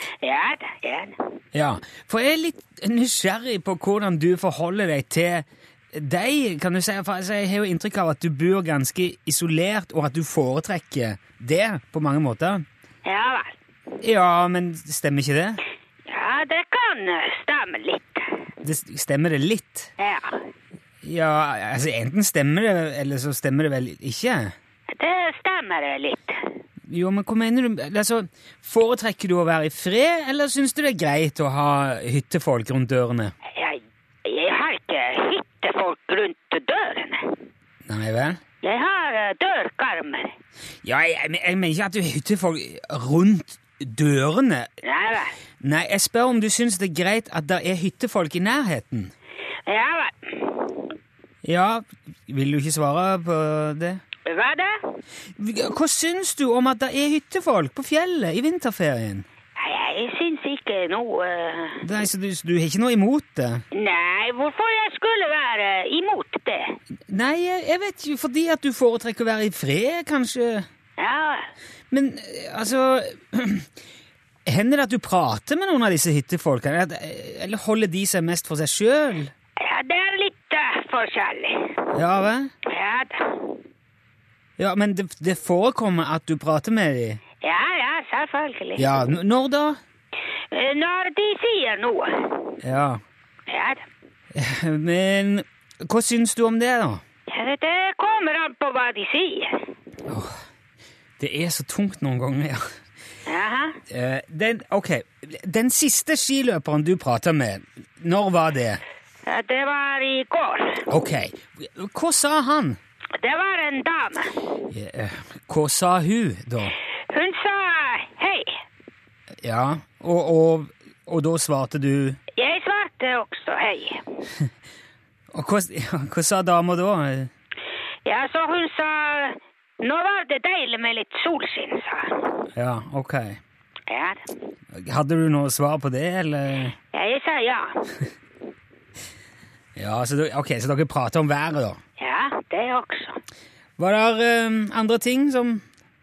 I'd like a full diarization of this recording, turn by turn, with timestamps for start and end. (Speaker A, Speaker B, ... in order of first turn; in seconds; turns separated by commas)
Speaker A: 0.2-1.2, Speaker B: 1.5-12.6, Speaker A: 13.0-13.6, Speaker B: 14.0-15.6, Speaker A: 16.1-18.3, Speaker B: 18.6-19.9, Speaker A: 20.0-20.4, Speaker B: 21.0-24.5, Speaker A: 24.9-26.4, Speaker B: 26.9-33.3, Speaker A: 33.5-37.4, Speaker B: 37.9-38.4, Speaker A: 38.6-40.3, Speaker B: 40.8-44.7, Speaker A: 44.8-45.3, Speaker B: 45.6-49.1, Speaker A: 49.7-50.9, Speaker B: 51.4-54.0, Speaker A: 54.2-54.8, Speaker B: 55.4-59.2, Speaker A: 59.6-61.8, Speaker B: 61.8-63.6, Speaker A: 63.7-66.8, Speaker B: 67.1-70.7, Speaker A: 71.0-71.5, Speaker B: 71.9-73.7, Speaker B: 74.5-79.3, Speaker A: 79.6-81.8, Speaker B: 81.9-82.5, Speaker A: 82.7-83.6, Speaker B: 84.6-87.2, Speaker A: 87.4-88.9, Speaker B: 88.8-89.8, Speaker A: 90.5-92.5, Speaker B: 92.6-93.0, Speaker A: 93.5-93.8, Speaker B: 94.3-97.0, Speaker A: 97.3-99.7, Speaker B: 100.1-100.4, Speaker B: 101.2-102.7, Speaker A: 103.3-103.8, Speaker B: 103.9-108.8, Speaker A: 109.2-110.8, Speaker B: 110.9-112.8, Speaker A: 113.2-114.3, Speaker B: 114.7-116.7, Speaker A: 117.1-118.6, Speaker B: 119.4-122.2, Speaker A: 122.3-124.0, Speaker B: 125.3-127.3, Speaker A: 128.0-132.2, Speaker B: 132.6-133.4, Speaker A: 133.9-134.2, Speaker B: 134.7-136.7, Speaker A: 136.9-137.8, Speaker B: 139.8-141.8, Speaker A: 142.0-143.2, Speaker B: 143.8-145.6